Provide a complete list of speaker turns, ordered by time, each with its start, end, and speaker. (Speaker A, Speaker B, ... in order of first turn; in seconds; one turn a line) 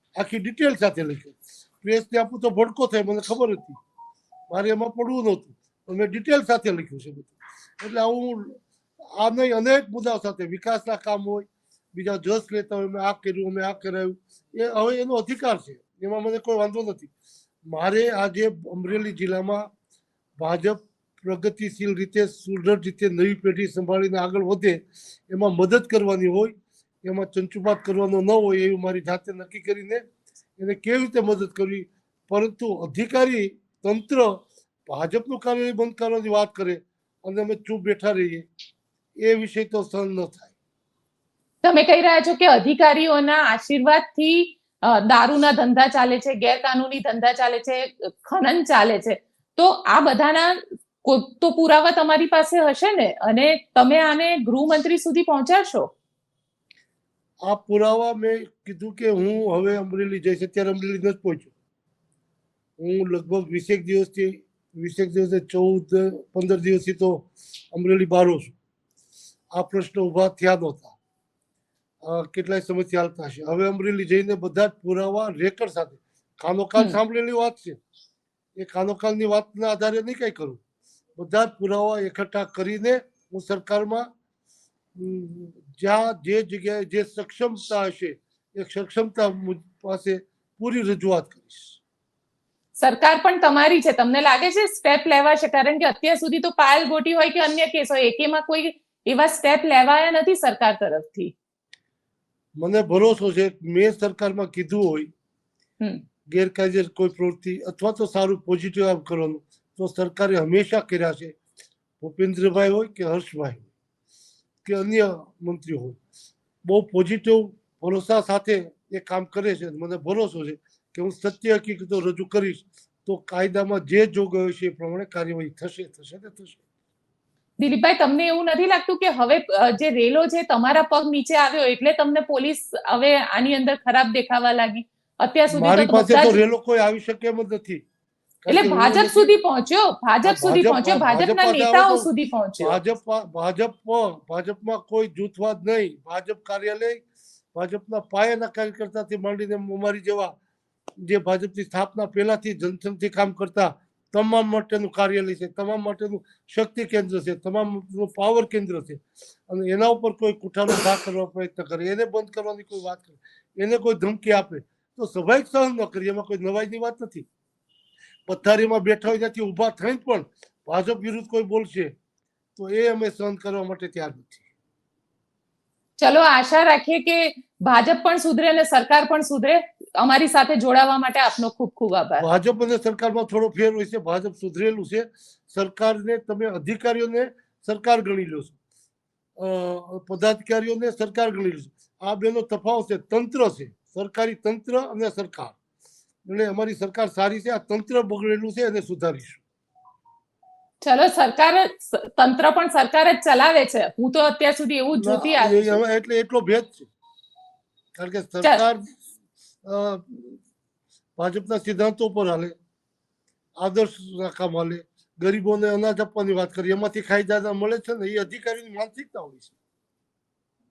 Speaker A: 0.2-3.8
Speaker A: 4.5-8.6
Speaker A: 9.2-17.1
Speaker A: 17.7-19.7
Speaker A: 20.4-30.0
Speaker A: 30.6-38.5
Speaker A: 39.2-40.5
Speaker B: 41.6-55.9
Speaker A: 57.5-61.5
Speaker A: 62.8-68.5
Speaker A: 69.5-71.0
Speaker A: 72.0-77.8
Speaker A: 78.6-80.6
Speaker A: 81.2-84.1
Speaker A: 85.0-91.8
Speaker B: 92.8-101.3
Speaker A: 102.6-105.1
Speaker A: 106.3-111.3
Speaker A: 112.0-113.7
Speaker A: 114.6-116.0
Speaker A: 116.6-126.6
Speaker B: 127.6-136.4
Speaker A: 135.5-137.8
Speaker A: 138.4-139.3
Speaker B: 138.5-142.8
Speaker A: 140.2-142.1
Speaker A: 142.6-147.0
Speaker A: 147.5-150.3
Speaker A: 151.0-167.2
Speaker A: 168.3-171.9
Speaker A: 172.6-174.4
Speaker B: 176.0-182.2
Speaker A: 182.2-188.6
Speaker A: 189.4-195.5
Speaker A: 196.2-199.4
Speaker B: 200.8-205.8
Speaker A: 205.0-206.9
Speaker A: 207.9-208.8
Speaker A: 209.6-210.4
Speaker A: 211.2-212.5
Speaker A: 213.6-219.5